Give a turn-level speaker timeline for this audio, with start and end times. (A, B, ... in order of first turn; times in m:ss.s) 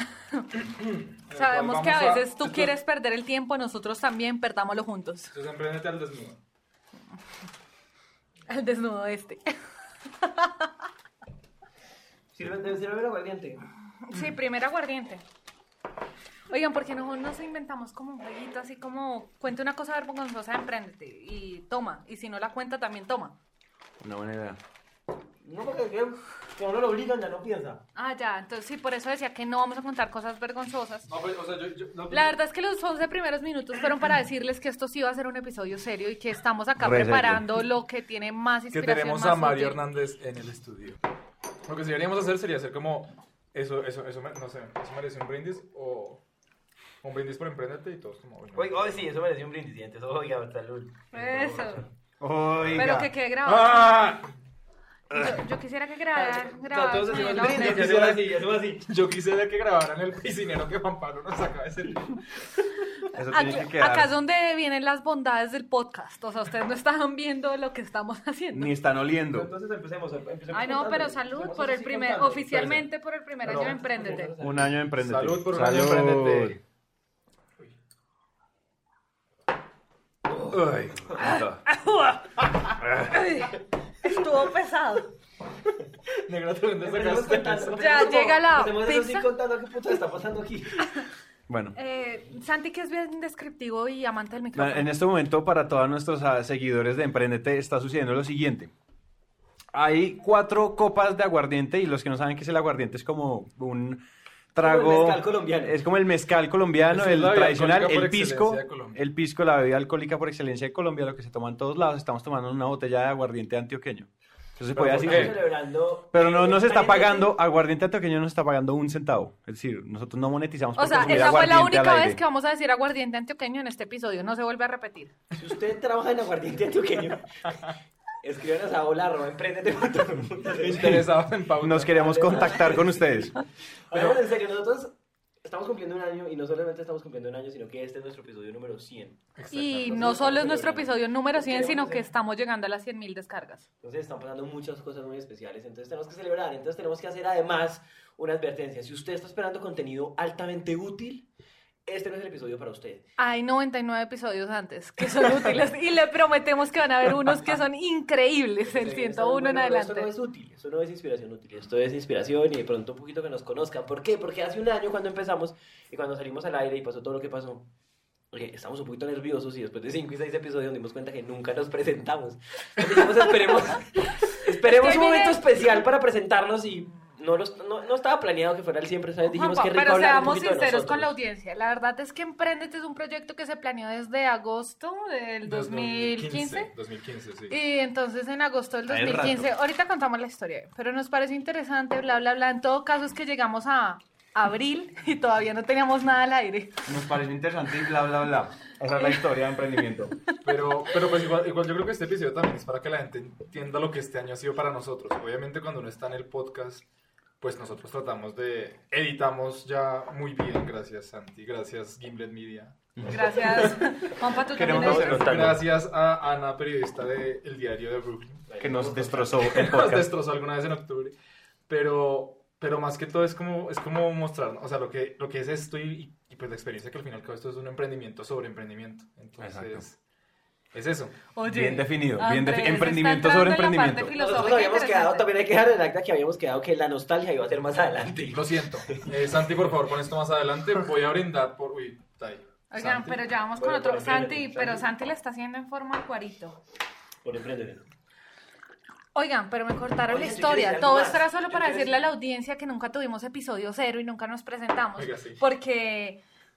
0:00.6-0:02.7 A
0:01.3-0:05.3 B
0:05.3-0:06.4 A
0:08.5-0:09.6 B
0:10.2-0:10.7 B
0:12.3-0:13.6 C
0:14.0-0:15.2 B
0:16.5-0:23.3 B
0:24.0-0:24.6 D
0:25.4-0:27.8 C
0:27.9-0:31.1 B
0:31.1-0:32.4 A
0:32.1-0:39.8 B
0:36.8-0:37.4 D
0:38.7-0:41.0 A
0:41.6-0:46.2 A
0:47.0-0:48.8 A
0:48.5-0:51.9 C
0:51.1-0:51.8 B
0:52.2-0:53.1 D
0:52.7-0:54.0 B
0:53.4-0:54.3 A
0:55.1-0:57.8 B
0:56.1-0:58.8 C
0:57.1-0:58.3 A
0:58.9-1:02.6 A
1:03.1-1:04.1 D
1:03.3-1:08.7 B
1:08.5-1:09.5 D
1:09.3-1:12.8 C
1:10.5-1:14.3 B
1:13.4-1:14.7 C
1:14.4-1:16.6 D
1:15.0-1:16.6 A
1:20.3-1:20.6 C
1:20.5-1:21.6 A
1:21.2-1:22.4 B
1:22.8-1:23.4 A
1:23.1-1:25.1 B
1:26.2-1:28.1 A
1:26.8-1:31.1 C
1:27.8-1:29.2 B
1:31.5-1:31.7 D
1:31.7-1:34.9 B
1:34.5-1:38.7 D
1:39.7-1:44.0 D
1:44.5-1:55.4 D
1:44.6-1:45.8 C
1:46.9-1:49.0 A
1:54.7-1:57.3 C
1:54.8-1:55.3 A
1:56.1-2:02.2 D
2:00.8-2:05.1 B
2:05.3-2:07.5 C
2:08.2-2:11.1 C
2:10.5-2:12.4 A
2:11.6-2:13.4 D
2:11.9-2:13.0 C
2:13.9-2:22.1 C
2:19.4-2:19.7 A
2:19.5-2:23.6 B
2:23.8-2:31.2 C
2:31.8-2:33.0 C
2:33.2-2:40.1 B
2:38.7-2:47.7 C
2:48.3-3:01.1 C
2:54.7-2:55.4 B
2:59.3-3:06.7 B
3:05.4-3:07.5 A
3:07.5-3:16.8 B
3:08.9-3:09.5 D
3:16.8-3:20.1 D
3:20.4-3:26.8 A
3:27.4-3:38.4 A
3:33.0-3:35.3 B
3:34.5-3:35.4 D
3:34.6-3:35.6 C
3:38.5-3:39.3 C
3:38.6-3:40.1 D
3:39.3-3:41.1 A
3:41.7-3:50.0 A
3:49.4-3:49.8 D
3:50.7-3:51.1 A
3:51.3-3:55.2 B
3:51.4-3:54.1 D
3:54.1-3:59.1 C
3:58.3-4:03.2 A
4:02.7-4:06.6 B
4:03.6-4:04.8 C
4:07.2-4:07.8 C
4:09.1-4:16.2 B
4:10.1-4:12.0 C
4:15.0-4:15.4 A